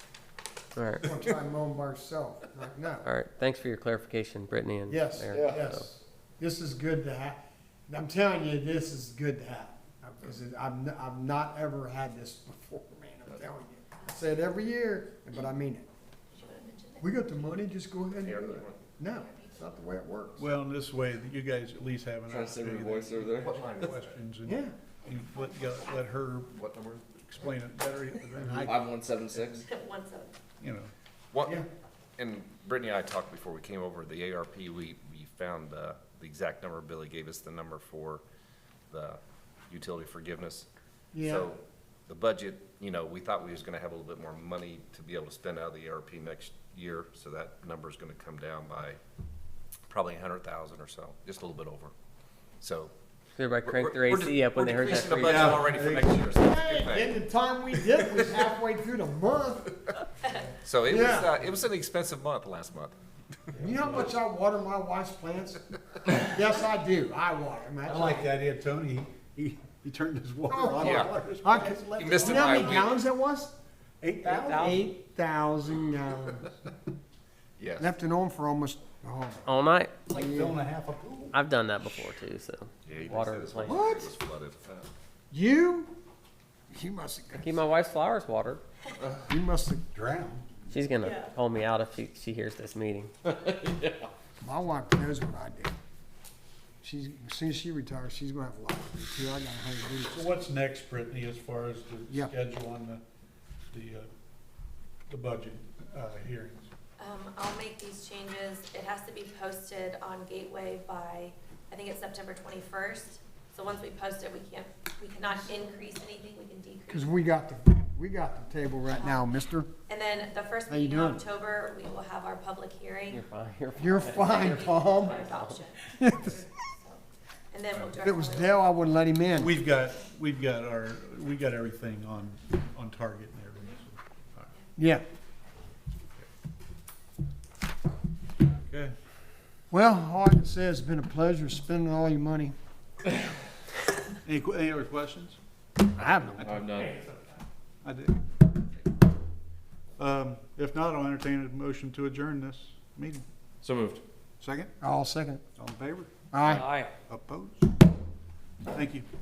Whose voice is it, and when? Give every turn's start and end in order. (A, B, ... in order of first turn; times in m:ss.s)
0:00.8-0:01.1 A
0:01.0-0:03.1 B
0:03.0-0:05.9 A
0:04.9-0:15.9 B
0:05.3-0:05.6 C
0:16.3-0:17.1 D
0:17.0-0:20.4 B
0:18.2-0:18.8 E
0:19.2-0:19.6 D
0:20.4-0:26.5 F
0:22.3-0:23.6 C
0:23.4-0:24.2 E
0:24.5-0:24.7 B
0:26.5-0:27.1 E
0:27.1-0:29.5 F
0:28.4-0:29.6 C
0:29.6-0:30.4 D
0:30.6-0:30.9 F
0:31.3-0:31.6 E
0:32.2-0:38.2 E
0:38.9-0:40.7 E
0:41.1-0:41.5 B
0:41.2-0:49.0 E
0:49.9-0:51.9 E
0:52.6-0:52.9 E
0:53.4-0:55.6 A
0:53.6-0:57.1 E
0:54.9-0:56.3 F
0:56.3-0:59.8 B
0:57.8-0:58.4 E
1:00.6-1:03.0 E
1:00.8-1:01.4 B
1:03.6-1:04.2 F
1:03.6-1:08.3 B
1:07.9-1:12.8 F
1:10.5-1:13.6 B
1:10.8-1:11.2 E
1:12.0-1:13.0 E
1:14.0-1:14.8 F
1:14.3-1:16.5 B
1:14.3-1:14.6 A
1:17.6-1:17.9 E
1:17.8-1:19.5 B
1:19.5-1:20.0 A
1:20.1-1:21.3 F
1:20.1-1:20.6 B
1:21.3-1:23.9 A
1:22.9-1:24.9 E
1:23.7-1:24.1 B
1:25.3-1:26.0 B
1:26.7-1:27.6 B
1:27.3-1:28.6 A
1:29.2-1:29.8 B
1:29.9-1:30.5 F
1:30.7-1:33.1 A
1:31.0-1:31.3 D
1:33.3-1:34.1 C
1:34.4-1:35.7 B
1:36.8-1:40.4 B
1:40.1-1:43.0 F
1:43.7-1:44.1 F
1:45.1-1:46.7 F
1:47.0-1:57.1 D
1:56.9-1:59.7 B
1:59.9-2:03.2 D
2:00.7-2:01.2 B
2:03.1-2:05.6 A
2:03.8-2:05.2 B
2:04.2-2:08.7 D
2:06.0-2:06.4 B
2:08.0-2:09.6 B
2:09.4-2:14.5 F
2:14.8-2:15.0 B
2:18.6-2:19.0 F
2:19.7-2:22.6 B
2:24.3-2:25.4 F
2:26.0-2:26.7 B
2:26.4-2:27.1 C
2:27.8-2:28.2 F
2:30.0-2:33.2 F
2:33.6-2:34.0 C
2:34.4-2:34.7 F
2:34.8-2:35.4 B
2:35.6-2:36.1 F
2:36.3-2:36.7 B
2:36.4-2:36.9 A
2:37.1-2:37.7 F
2:38.7-2:39.1 F